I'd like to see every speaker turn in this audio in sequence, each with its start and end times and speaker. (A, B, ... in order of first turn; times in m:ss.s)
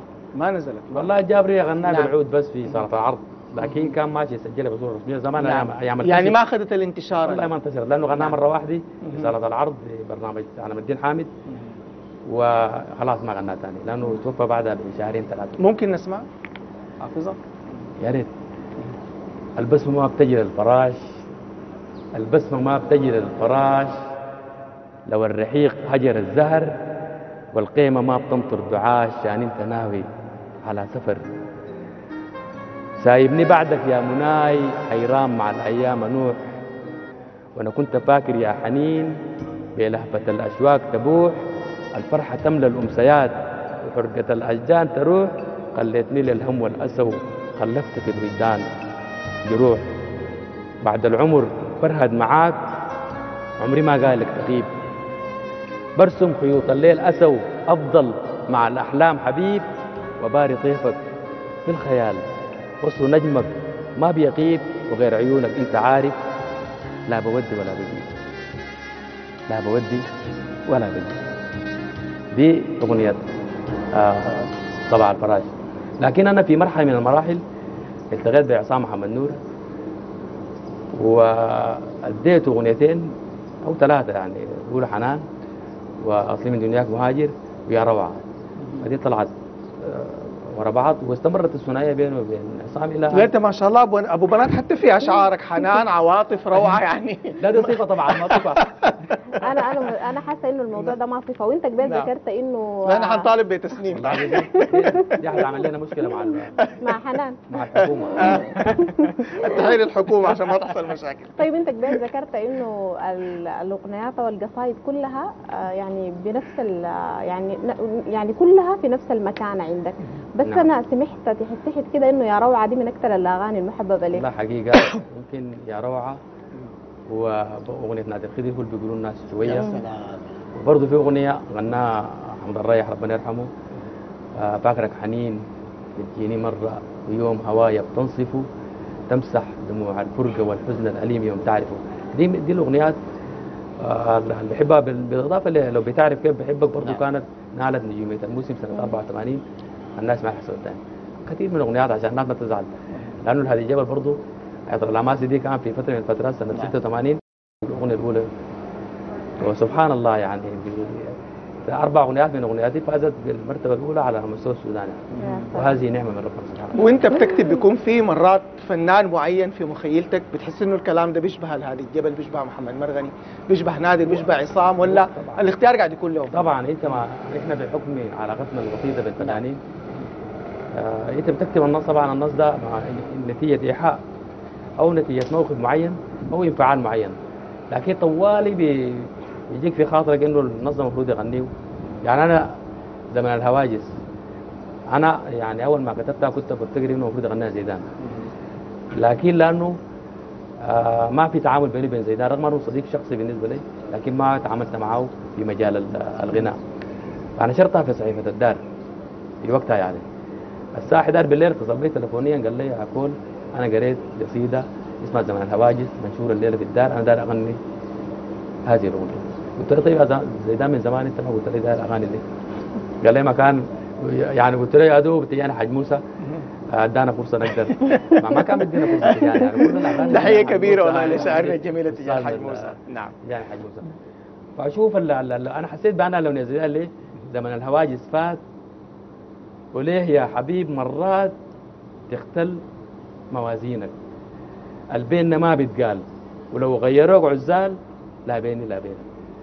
0:00.4-0:01.1 A
0:00.9-0:06.4 B
0:01.8-0:02.1 A
0:05.4-0:07.5 A
0:07.2-0:11.3 B
0:09.0-0:09.3 A
0:12.3-0:15.6 B
0:15.6-0:16.2 A
0:17.0-0:17.4 A
0:18.0-0:18.3 B
0:19.6-0:21.1 B
0:22.1-0:24.0 B
0:25.1-0:26.8 B
0:27.5-0:30.1 B
0:30.6-0:31.2 B
0:33.0-0:36.4 B
0:37.6-0:39.2 B
0:39.8-0:41.4 B
0:41.9-0:48.7 B
0:49.4-0:49.9 B
0:50.8-0:52.6 B
0:53.6-0:54.7 B
0:56.0-0:59.7 B
1:00.2-1:01.0 B
1:01.6-1:02.3 B
1:02.8-1:06.2 B
1:07.1-1:08.1 B
1:09.5-1:10.1 B
1:10.7-1:11.2 B
1:12.3-1:13.2 B
1:13.9-1:17.4 B
1:18.1-1:19.4 B
1:20.9-1:25.3 B
1:26.0-1:28.2 B
1:28.8-1:33.3 B
1:33.1-1:39.4 A
1:37.4-1:38.8 B
1:39.3-1:43.3 C
1:41.8-1:42.1 A
1:42.8-1:45.2 A
1:43.9-1:46.6 B
1:46.6-1:46.9 A
1:46.8-1:47.4 C
1:47.5-1:48.5 B
1:47.8-1:51.4 A
1:48.2-1:49.6 C
1:51.4-2:04.3 C
2:04.1-2:06.2 B
2:07.1-2:09.7 B
2:09.4-2:10.2 A
2:10.6-2:13.5 B
2:14.4-2:15.4 B
2:16.0-2:18.5 B
2:19.1-2:23.0 B
2:23.8-2:29.4 B
2:30.0-2:32.7 B
2:33.2-2:38.3 B
2:39.4-2:47.1 B
2:45.1-2:45.5 A
2:45.2-2:45.6 C
2:46.8-2:56.9 A
2:54.8-2:55.5 B
2:56.3-2:59.6 B
3:00.7-3:04.0 B
3:04.8-3:07.2 B
3:07.7-3:11.5 B
3:12.0-3:12.6 B
3:13.1-3:14.0 B
3:14.9-3:17.9 B
3:18.0-3:18.3 A
3:19.0-3:19.8 B
3:20.6-3:26.6 B
3:27.4-3:28.6 B
3:29.4-3:30.0 B
3:30.7-3:37.6 B
3:38.7-3:42.2 B
3:43.0-3:46.0 B
3:46.7-3:53.9 B
3:47.9-3:48.2 A
3:50.0-3:53.2 A
3:54.6-3:58.4 B
3:59.7-4:01.3 B
4:02.1-4:02.6 B
4:03.3-4:04.0 B
4:04.9-4:09.1 B